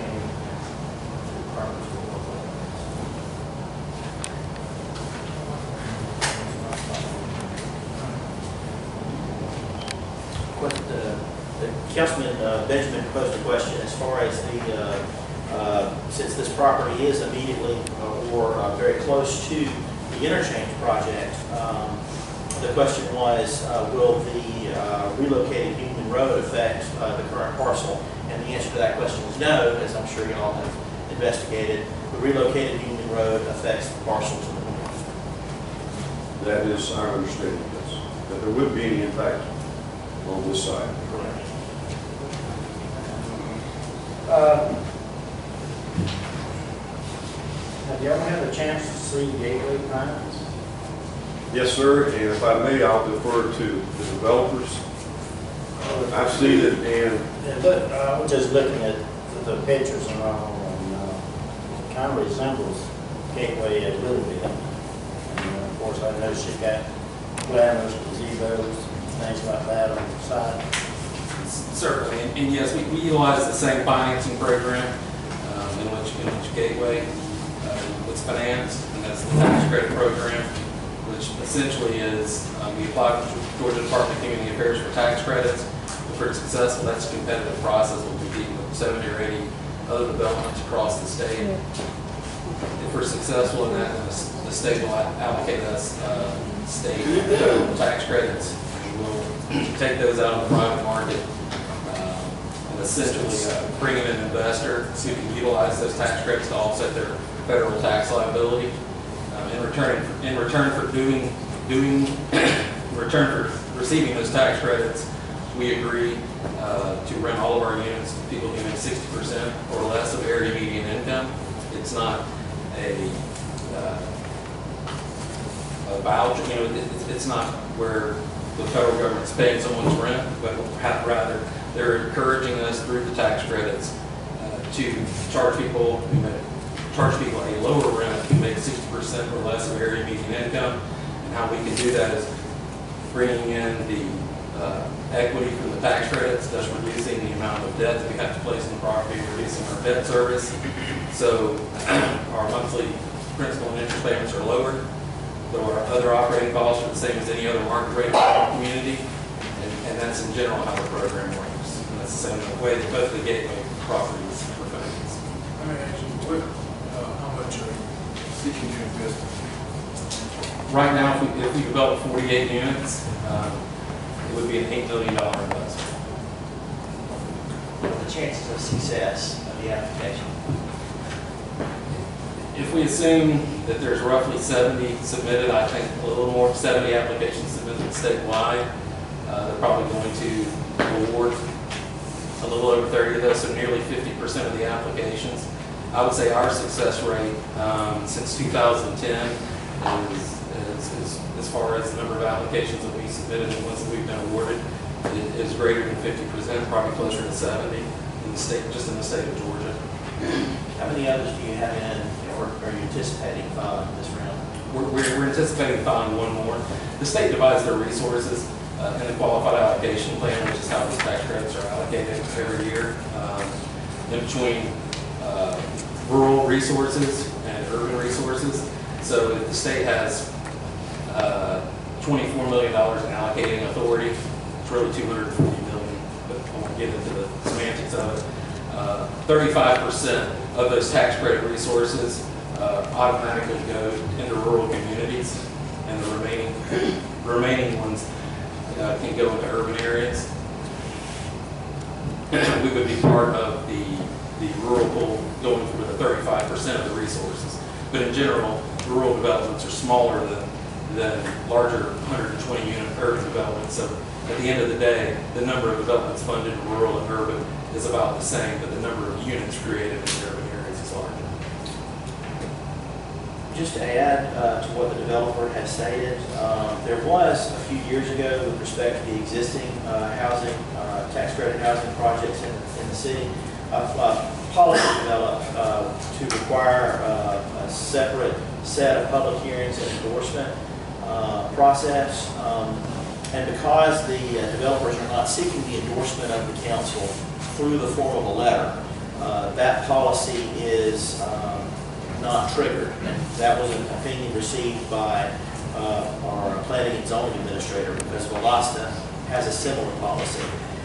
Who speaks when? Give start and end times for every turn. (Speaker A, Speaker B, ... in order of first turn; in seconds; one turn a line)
Speaker A: 10.5-35.1
Speaker B: 36.4-41.0
Speaker C: 44.2-44.7
Speaker C: 47.8-50.4
Speaker B: 51.5-54.8
Speaker C: 55.8-56.8
Speaker B: 56.1-57.3
Speaker C: 57.4-61.2
Speaker C: 61.8-64.6
Speaker C: 65.3-66.8
Speaker C: 67.4-70.6
Speaker D: 71.4-80.5
Speaker D: 81.0-91.6
Speaker D: 92.8-101.3
Speaker D: 101.8-108.7
Speaker D: 109.3-124.1
Speaker D: 125.8-142.3
Speaker D: 143.1-154.8
Speaker D: 155.5-165.2
Speaker E: 165.7-169.5
Speaker D: 170.7-173.6
Speaker D: 174.2-175.8
Speaker A: 177.8-180.4
Speaker D: 182.5-188.7
Speaker D: 189.2-191.4
Speaker D: 192.4-209.8
Speaker A: 210.8-214.4
Speaker D: 214.7-223.5
Speaker D: 224.1-230.3
Speaker D: 231.1-248.1
Speaker D: 248.7-250.3
Speaker D: 252.3-271.3
Speaker A: 273.5-310.5